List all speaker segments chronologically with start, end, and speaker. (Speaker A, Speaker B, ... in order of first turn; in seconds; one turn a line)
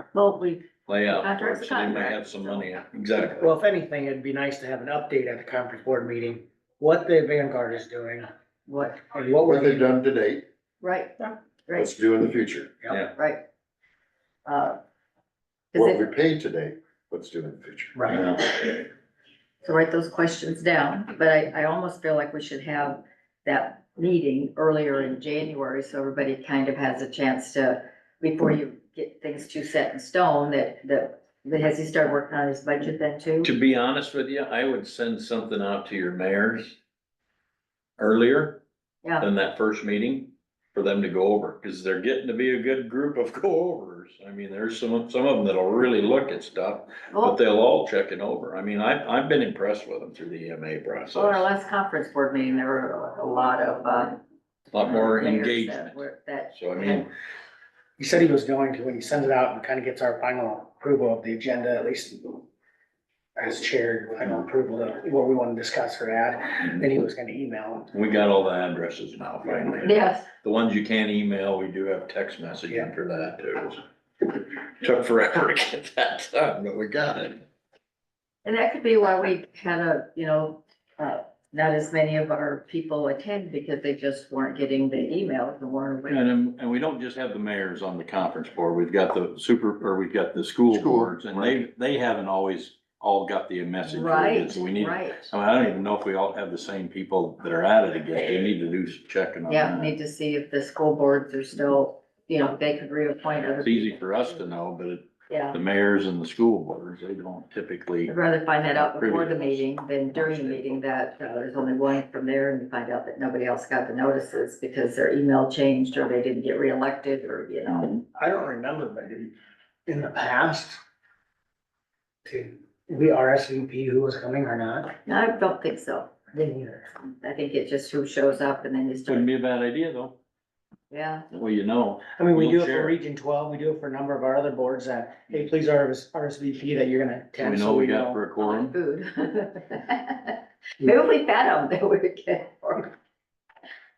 Speaker A: 0.1-2.8
Speaker B: 0.9-3.5
Speaker C: 3.4-8.3
Speaker A: 8.7-9.0
Speaker C: 9.1-10.0
Speaker D: 9.4-10.4
Speaker A: 10.8-11.9
Speaker D: 11.7-12.8
Speaker A: 13.1-13.4
Speaker A: 14.4-14.8
Speaker A: 15.7-16.0
Speaker D: 15.7-18.0
Speaker C: 17.9-18.2
Speaker B: 18.1-18.6
Speaker A: 19.6-33.5
Speaker B: 33.4-36.8
Speaker B: 38.0-38.6
Speaker B: 39.2-51.5
Speaker A: 47.1-47.4
Speaker A: 51.1-54.2
Speaker B: 54.7-57.1
Speaker A: 54.8-57.1
Speaker C: 58.0-62.4
Speaker C: 63.4-67.9
Speaker B: 67.9-77.4
Speaker A: 69.8-70.3
Speaker A: 78.4-86.3
Speaker B: 86.1-100.0
Speaker D: 90.7-91.6
Speaker A: 93.8-95.3
Speaker A: 99.5-104.3
Speaker B: 103.6-108.1
Speaker A: 105.3-105.6
Speaker A: 108.0-117.8
Speaker B: 108.7-110.8
Speaker B: 117.7-118.0
Speaker C: 118.2-119.3
Speaker C: 119.9-120.8
Speaker C: 122.2-124.9
Speaker A: 125.0-126.1
Speaker C: 126.3-126.9
Speaker A: 127.0-129.3
Speaker B: 129.1-130.1
Speaker A: 130.9-131.3
Speaker B: 131.3-133.0
Speaker C: 132.2-138.2
Speaker B: 137.4-138.7
Speaker A: 138.4-142.9